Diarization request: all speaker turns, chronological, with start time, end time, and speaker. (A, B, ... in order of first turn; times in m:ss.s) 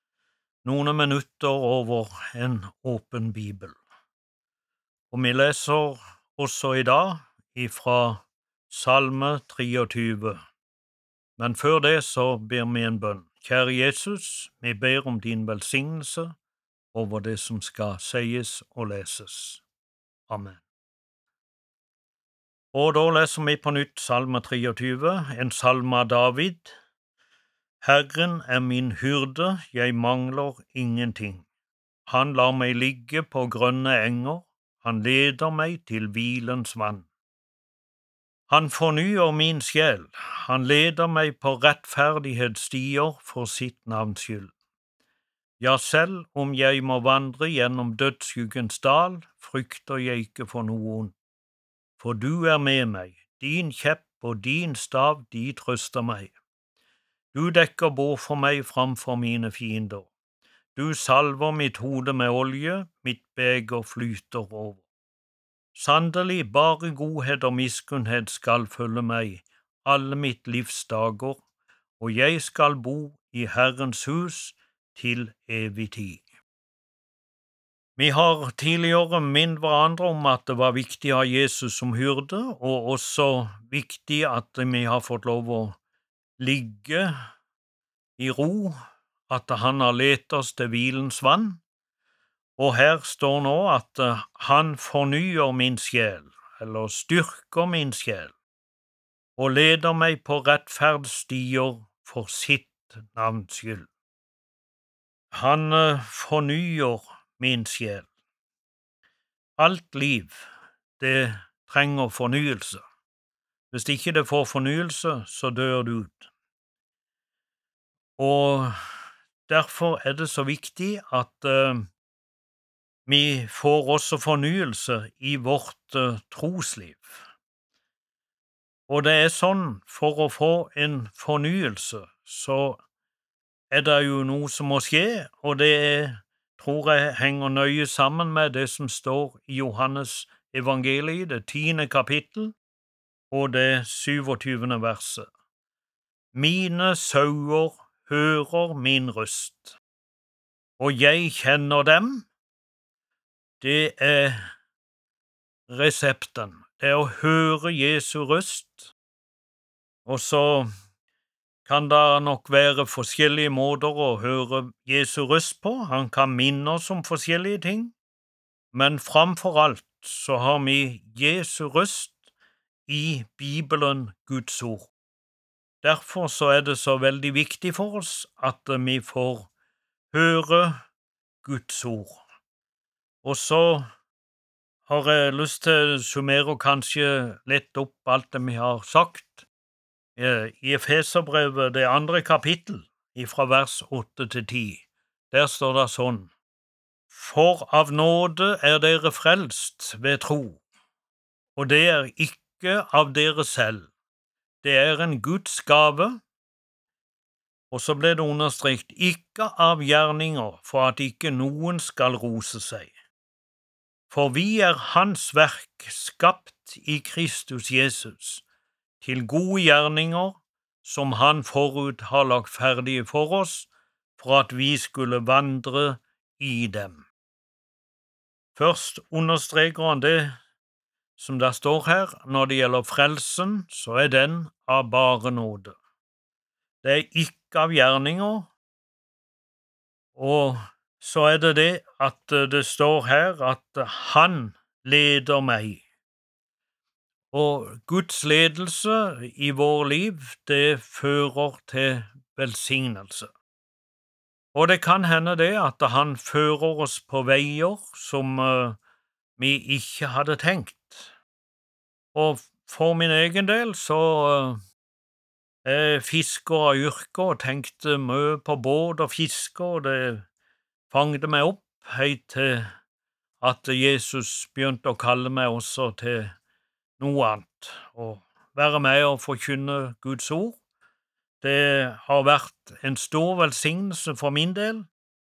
0:00.6-0:03.8 A
0:05.1-0:10.4 A
0:11.4-0:16.3 A
0:16.9-0:19.6 A
0:20.3-0:20.6 A
0:22.7-0:26.8 A
0:27.8-0:31.4 A
0:32.1-0:37.1 A
0:38.5-0:44.5 A
0:45.6-0:51.1 A
0:52.0-0:56.3 A
0:57.3-1:00.1 A
1:00.7-1:04.8 A
1:05.7-1:11.4 A
1:12.0-1:16.2 A
1:18.0-1:25.8 A
1:26.4-1:27.1 A
1:28.2-1:28.8 A
1:29.3-1:31.6 A
1:32.6-1:38.3 A
1:39.4-1:43.9 A
1:45.3-1:48.1 A
1:49.6-1:50.4 A
1:51.0-1:52.8 A
1:53.7-1:56.3 A
1:58.2-1:58.7 A
1:59.5-2:01.9 A
2:03.0-2:07.2 A
2:08.9-2:12.8 A
2:13.7-2:22.6 A
2:23.3-2:25.3 A
2:26.3-2:29.8 A
2:30.8-2:32.3 A
2:33.6-2:34.4 A
2:35.7-2:38.9 A
2:40.0-2:40.7 A
2:41.6-2:47.9 A
2:48.7-2:52.2 A
2:52.9-2:54.9 A
2:55.8-2:59.5 A
3:00.1-3:00.8 A
3:01.4-3:02.2 A
3:03.2-3:03.8 A
3:04.8-3:09.5 A
3:10.2-3:16.3 A
3:17.1-3:20.6 A
3:21.6-3:23.9 A
3:24.6-3:26.2 A
3:27.7-3:32.9 A
3:34.1-3:38.4 A
3:39.0-3:47.1 A
3:48.5-3:50.4 A
3:51.2-3:55.8 A
3:56.8-3:58.5 A
4:00.1-4:05.8 A
4:07.3-4:13.3 A
4:14.5-4:18.8 A
4:19.4-4:21.1 A
4:22.1-4:24.6 A
4:25.6-4:30.2 A
4:30.9-4:32.7 A
4:33.4-4:36.3 A
4:37.0-4:40.6 A
4:41.4-4:44.9 A